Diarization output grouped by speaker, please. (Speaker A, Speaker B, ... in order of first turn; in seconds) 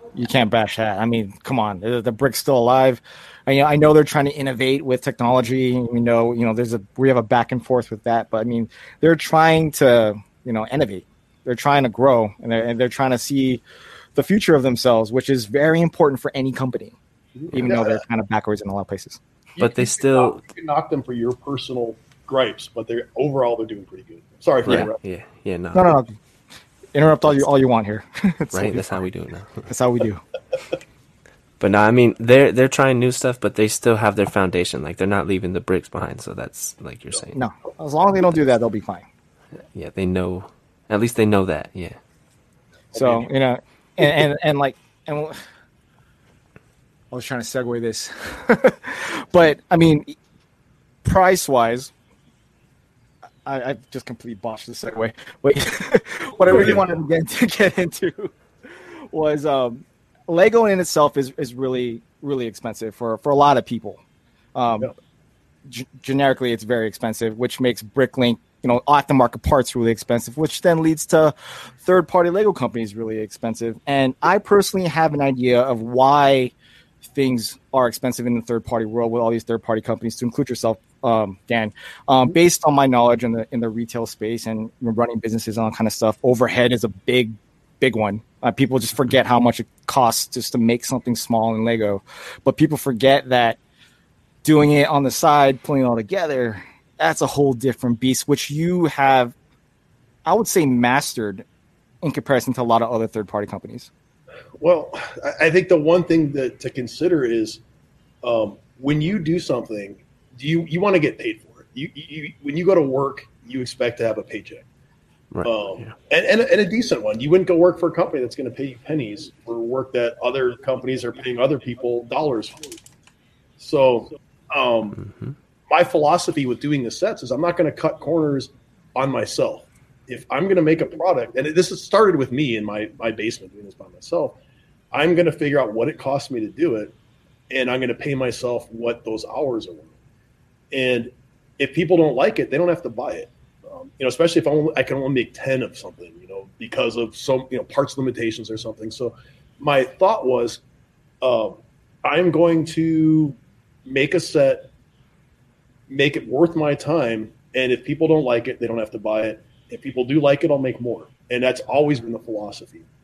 Speaker A: 0.2-13.6, 14.2-17.0, 17.5-19.2, 25.7-26.2, 26.9-29.0, 29.7-30.2, 37.3-39.1, 43.0-45.4, 47.1-50.1, 51.0-51.9, 53.5-64.0, 64.5-64.9, 65.7-76.5, 77.1-93.6, 94.4-99.3, 100.3-101.5, 102.0-103.9
Speaker B: 17.4-18.0, 19.6-25.0, 42.9-43.3, 56.5-56.8, 104.6-107.6, 108.2-114.7, 115.4-122.6, 123.6-125.0, 125.7-134.4, 134.9-136.9, 137.5-139.9, 140.7-150.6, 151.2-154.7, 155.9-162.9
Speaker C: 19.6-20.4, 24.7-26.0, 28.5-29.7, 31.6-37.4, 39.6-42.0, 115.3-116.0, 124.9-125.4